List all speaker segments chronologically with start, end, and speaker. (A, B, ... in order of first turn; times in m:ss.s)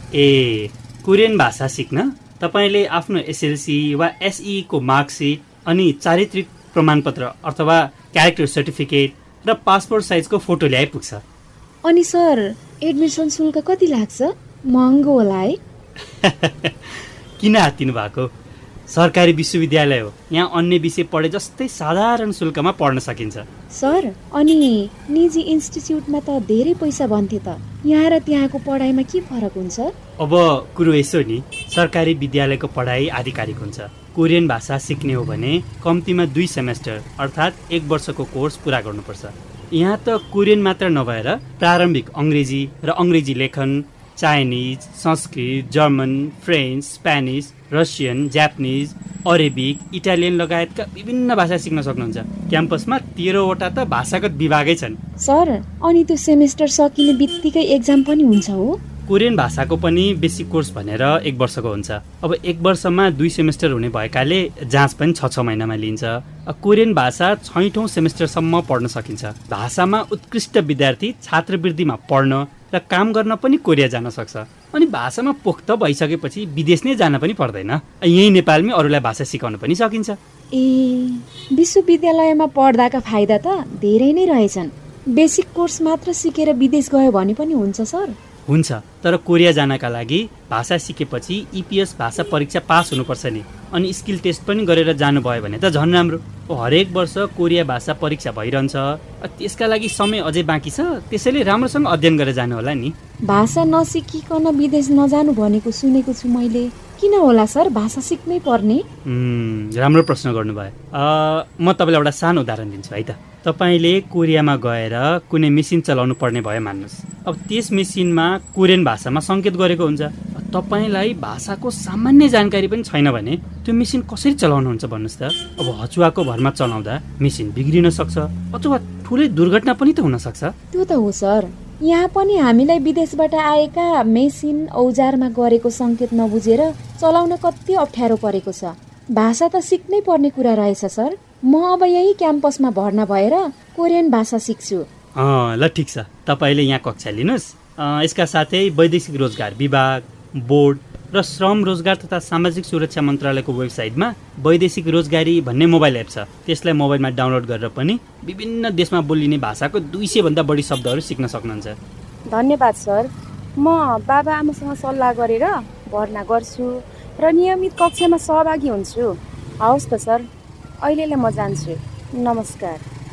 0:00.1-0:11.2 A
0:11.9-0:15.6 B
0:16.2-0:18.3 A
0:18.9-0:23.4 A
0:23.7-0:29.9 B
0:30.2-0:55.0 A
0:55.2-0:58.8 B
0:59.1-1:20.2 A
1:20.5-1:28.1 B
1:28.5-1:42.9 A
1:43.3-1:48.8 B
1:49.1-2:10.5 A
2:10.7-2:24.9 B
2:25.2-2:41.8 A
2:42.3-2:49.1 C
2:49.6-2:50.3 C
2:50.8-2:52.8 C